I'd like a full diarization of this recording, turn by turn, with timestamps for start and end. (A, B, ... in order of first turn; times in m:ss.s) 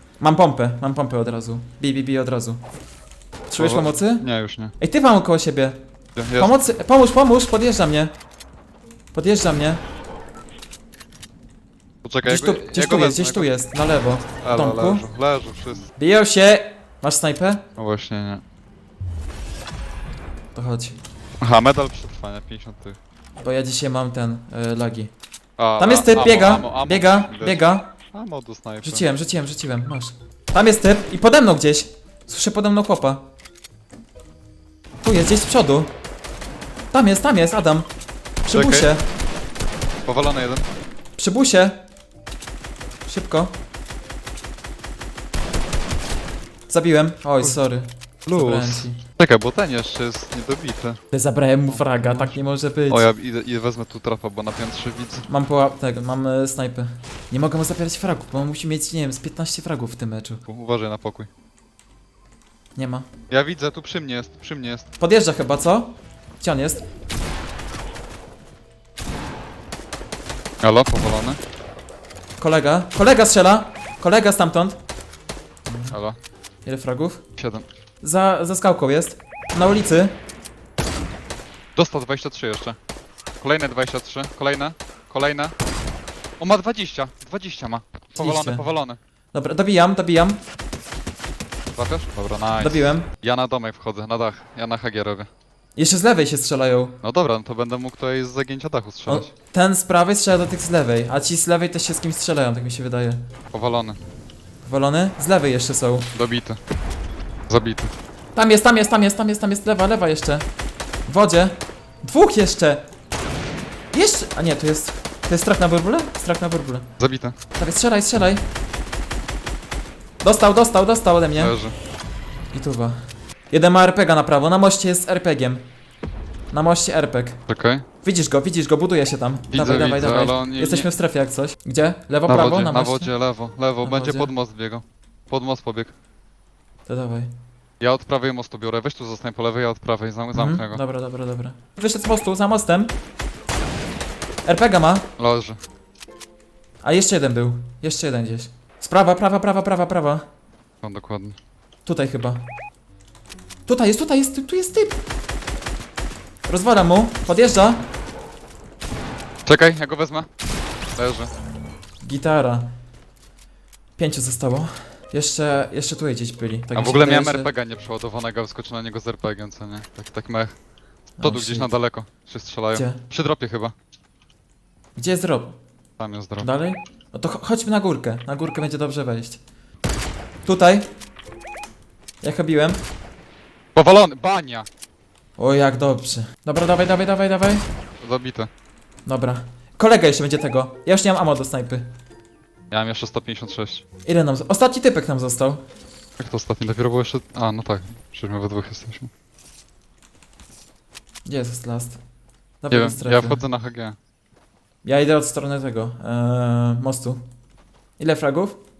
0:00.2-0:02.6 A
0:03.5-0:04.3 A
0:03.6-0:04.8 B
0:04.8-0:05.8 A
0:06.2-0:06.6 B
0:06.4-0:08.1 A
0:09.1-0:09.8 A
0:12.0-0:13.5 B
0:12.2-0:15.1 A
0:14.4-0:15.9 B
0:16.0-0:17.6 A
0:17.8-0:18.4 B
0:20.6-0:21.0 A
0:21.4-0:23.0 B
0:23.4-0:25.1 A
0:25.6-0:29.0 B
0:25.8-0:27.9 A
0:28.8-0:33.3 A
0:35.0-0:35.9 A
0:36.9-0:37.9 A
0:38.4-0:39.0 A
0:38.5-0:38.9 B
0:40.1-0:40.7 B
0:41.2-0:41.8 A
0:43.1-0:43.5 A
0:46.7-0:49.0 A
0:48.3-0:51.0 B
0:51.1-0:53.1 A
0:51.7-0:52.4 B
0:52.9-0:55.3 B
0:55.2-1:00.4 A
1:00.5-1:01.3 B
1:02.8-1:03.1 A
1:03.3-1:04.9 B
1:05.0-1:06.8 A
1:10.6-1:11.4 B
1:12.4-1:14.8 A
1:15.7-1:16.0 A
1:15.9-1:16.2 B
1:16.6-1:17.2 A
1:17.4-1:17.7 B
1:18.0-1:20.2 A
1:21.8-1:22.8 B
1:23.4-1:25.6 B
1:26.4-1:29.0 B
1:28.2-1:28.7 A
1:29.3-1:30.4 A
1:31.8-1:35.3 B
1:32.6-1:33.1 A
1:35.8-1:37.0 A
1:37.0-1:39.3 B
1:39.1-1:43.2 A
1:43.5-1:44.0 B
1:44.6-1:46.1 A
1:46.1-1:46.6 B
1:47.5-1:47.9 B
1:48.4-1:50.5 A
1:51.1-1:52.8 A
1:53.9-1:56.9 A
1:57.0-1:57.4 B
1:57.6-1:58.4 A
2:00.2-2:01.6 A
2:01.4-2:01.8 B
2:02.5-2:03.0 A
2:03.5-2:05.6 A
2:06.5-2:07.4 A
2:07.5-2:07.8 B
2:08.0-2:13.1 A
2:09.5-2:10.9 B
2:12.3-2:15.9 B
2:13.8-2:14.3 A
2:16.9-2:17.3 A
2:17.8-2:20.8 B
2:20.4-2:22.9 A
2:24.4-2:25.1 A
2:25.2-2:25.6 B
2:26.8-2:30.2 A
2:30.8-2:31.4 B
2:31.8-2:32.5 A
2:33.7-2:35.0 A
2:36.5-2:37.9 A
2:39.5-2:40.3 B
2:41.0-2:41.3 B
2:42.0-2:42.7 A
2:44.0-2:47.5 A
2:46.8-2:50.6 B
2:51.2-2:51.7 A
2:51.2-2:53.7 B
2:52.7-2:53.0 A
2:55.0-2:55.6 A
2:56.0-2:56.5 B
2:56.4-2:59.4 A
3:00.4-3:00.9 A
3:02.2-3:02.8 A
3:03.8-3:04.7 B
3:05.4-3:07.6 A
3:08.0-3:08.5 B
3:09.1-3:11.8 A
3:12.7-3:13.8 B
3:14.1-3:15.6 A
3:16.2-3:19.1 B
3:21.3-3:22.0 A
3:22.6-3:23.4 A
3:22.7-3:24.0 B
3:24.8-3:27.2 A
3:28.0-3:28.6 A